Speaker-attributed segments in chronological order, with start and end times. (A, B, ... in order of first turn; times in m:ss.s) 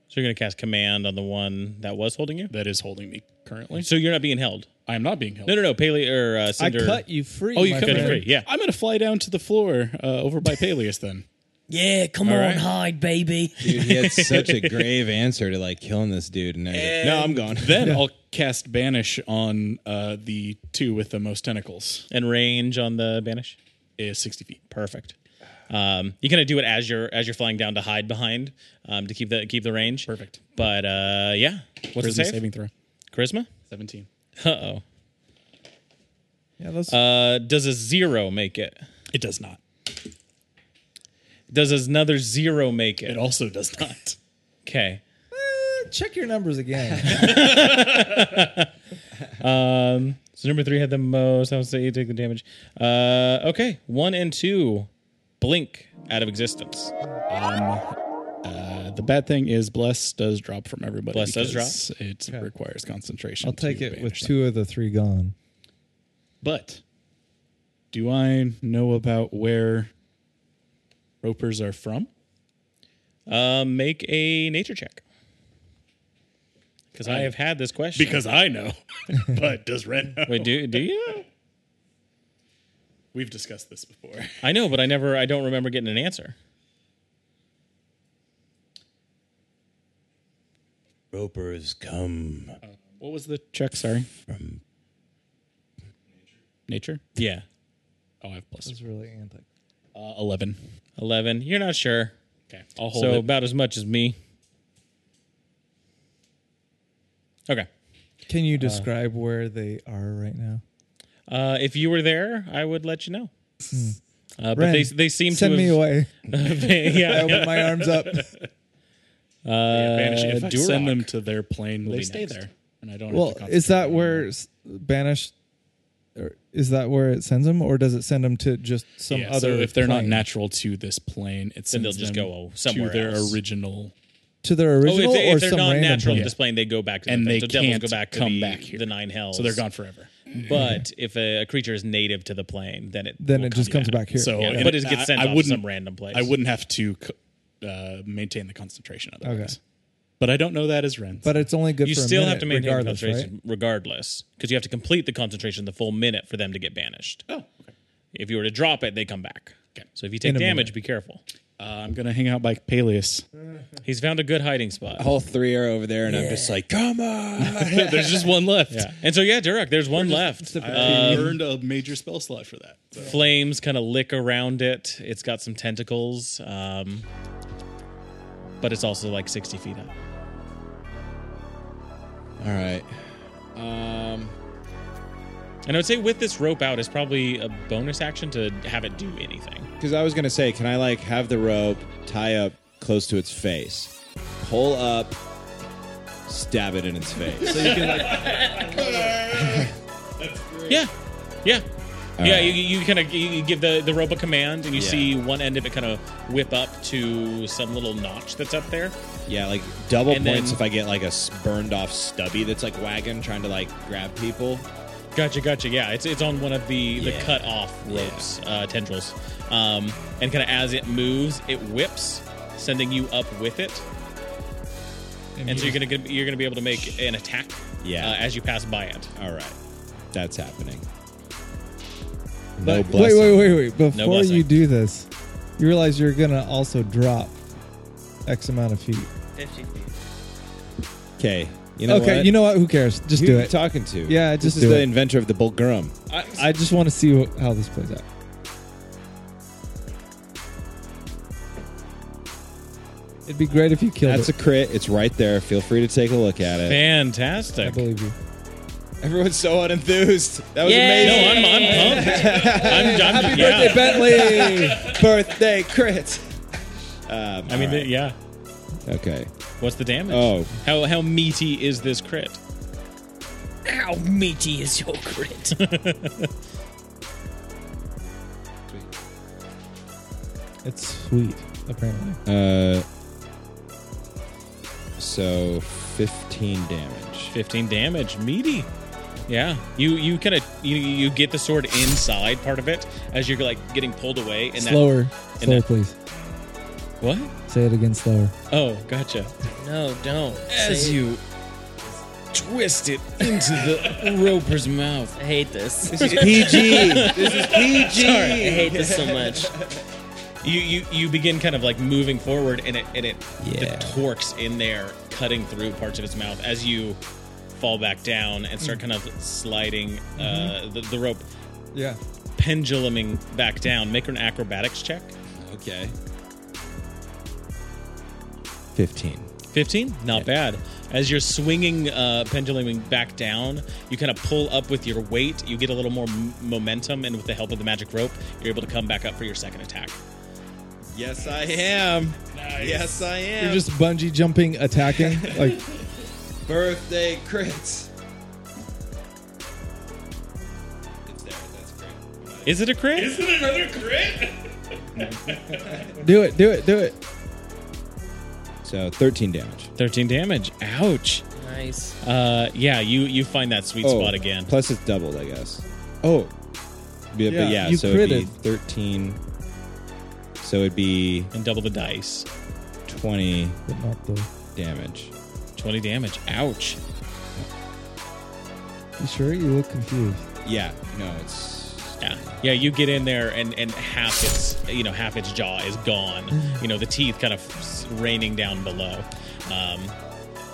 0:00.1-0:02.5 A
0:02.5-0:03.9 B
0:03.8-0:04.7 A
0:04.9-0:05.6 B
0:05.5-0:07.0 A
0:06.6-0:08.2 C
0:07.6-0:11.2 B
0:07.8-0:08.5 A
0:11.7-0:13.8 D
0:12.2-0:12.7 A
0:13.6-0:18.0 E
0:13.8-0:14.9 A
0:16.7-0:22.0 B
0:22.1-0:23.6 A
0:24.0-0:24.6 B
0:24.7-0:25.2 A
0:25.7-0:32.4 A
0:30.0-0:30.4 B
0:32.0-0:32.7 B
0:33.1-0:33.5 A
0:33.7-0:34.1 B
0:34.4-0:34.8 A
0:36.6-0:37.0 C
0:36.9-0:38.8 A
0:39.1-0:39.6 B
0:41.5-0:43.2 A
0:43.0-0:44.2 B
0:44.6-0:45.0 A
0:45.3-0:47.4 C
0:47.0-0:48.7 A
0:49.4-0:54.9 A
0:55.4-0:56.9 A
0:57.3-0:57.9 B
0:58.4-1:04.4 B
1:01.1-1:01.8 A
1:03.4-1:05.4 C
1:06.4-1:06.8 B
1:07.9-1:09.9 B
1:11.2-1:12.1 B
1:13.3-1:15.0 A
1:16.9-1:18.2 A
1:17.0-1:17.4 B
1:18.0-1:20.9 B
1:20.3-1:21.2 A
1:23.1-1:24.4 B
1:24.4-1:26.4 A
1:31.1-1:32.6 E
1:32.6-1:34.1 B
1:34.3-1:34.6 E
1:36.7-1:37.0 B
1:37.2-1:37.4 A
1:38.2-1:38.8 B
1:38.6-1:39.5 C
1:39.9-1:40.6 B
1:41.0-1:42.2 A
1:42.5-1:43.3 B
1:42.9-1:44.2 A
1:48.3-1:50.6 C
1:48.6-1:48.9 A
1:51.3-1:53.3 A
1:53.7-1:54.0 C
1:54.4-1:57.9 A
1:54.5-1:56.1 C
1:57.1-1:58.3 C
1:57.1-1:58.3 B
1:59.4-2:01.1 A
1:59.7-2:04.3 B
2:01.8-2:02.4 A
2:03.1-2:05.3 C
2:06.2-2:10.2 C
2:09.1-2:13.9 B
2:11.7-2:13.4 A
2:14.4-2:16.3 C
2:14.8-2:19.6 A
2:16.1-2:16.4 B
2:17.1-2:20.6 B
2:20.3-2:26.3 A
2:23.2-2:24.6 C
2:23.6-2:29.6 B
2:29.2-2:29.6 C
2:30.2-2:31.5 B
2:31.2-2:33.3 C
2:31.8-2:37.2 A
2:37.3-2:37.7 B
2:38.1-2:41.2 A
2:40.2-2:40.7 C
2:41.6-2:43.3 B
2:43.8-2:45.1 A
2:45.0-2:48.4 E
2:46.1-2:46.6 D
2:47.4-2:49.0 B
2:48.7-2:51.4 A
2:49.9-2:53.2 B
2:50.4-2:51.4 C
2:53.0-2:57.1 A
2:58.6-2:59.9 A
3:02.4-3:04.4 E
3:05.7-3:09.7 A
3:09.8-3:15.2 E
3:16.3-3:19.7 E
3:17.4-3:19.6 B
3:17.6-3:18.3 C
3:18.4-3:18.8 D
3:20.3-3:20.6 B
3:20.3-3:20.8 E
3:20.7-3:20.9 A
3:22.2-3:22.6 E
3:22.2-3:29.0 A
3:24.7-3:25.2 E
3:29.3-3:34.7 E
3:30.1-3:30.6 A
3:35.2-3:43.8 A
3:37.0-3:38.3 E
3:45.4-3:45.8 C
3:45.5-3:49.1 A
3:47.8-3:48.2 E
3:49.2-3:49.6 E
3:50.1-3:50.9 E
3:52.6-3:53.7 E
3:52.6-3:57.4 C
3:53.9-3:54.5 A
3:58.3-3:59.1 C
3:59.4-3:59.9 D
4:01.2-4:02.4 E
4:01.9-4:04.9 C
4:03.1-4:06.0 E
4:06.1-4:08.0 C
4:13.3-4:14.3 C
4:14.0-4:16.8 E
4:16.6-4:17.8 A
4:17.6-4:18.2 C
4:19.0-4:26.4 E
4:20.6-4:22.5 D
4:21.0-4:24.4 A
4:21.8-4:25.0 C
4:27.1-4:27.9 E
4:27.5-4:28.2 A
4:28.8-4:29.3 E
4:29.6-4:32.4 A
4:30.1-4:30.6 E
4:33.6-4:35.6 D
4:35.6-4:36.3 A
4:40.6-4:42.2 C
4:42.3-4:42.8 E
4:45.0-4:47.4 E
4:47.3-4:48.7 A
4:49.3-4:55.6 A
4:54.6-4:56.0 C
4:57.0-4:57.3 A
4:57.5-4:58.3 C
4:58.5-4:59.3 A
4:59.6-5:01.0 D
5:00.5-5:01.2 A
5:02.3-5:05.2 A
5:05.2-5:07.4 D
5:05.8-5:09.8 E
5:06.0-5:08.6 A
5:08.0-5:09.5 D
5:10.4-5:17.0 A
5:13.4-5:14.0 E
5:17.5-5:21.2 A
5:20.2-5:20.6 C
5:21.7-5:22.0 C
5:22.4-5:25.1 A
5:25.3-5:26.0 E
5:28.8-5:29.3 E
5:29.5-5:40.0 A
5:40.9-5:43.7 E
5:42.3-5:43.1 B
5:43.4-5:45.7 C
5:45.0-5:45.5 E
5:46.4-5:47.9 E
5:51.1-5:52.7 E
5:52.4-5:53.2 A
5:53.0-5:54.6 B
5:55.3-5:55.9 E
5:55.3-5:55.8 B
5:55.9-5:57.0 C
5:58.6-5:59.7 E
5:59.8-6:01.3 A
6:01.4-6:02.0 D
6:02.0-6:04.5 A
6:03.8-6:06.3 E
6:07.1-6:09.2 E
6:07.3-6:08.3 C
6:10.4-6:11.3 E
6:11.3-6:12.3 A
6:12.9-6:13.6 E
6:13.7-6:14.3 C
6:14.5-6:15.1 E
6:15.6-6:16.8 A
6:19.0-6:20.3 C
6:20.4-6:22.4 E
6:22.0-6:30.0 A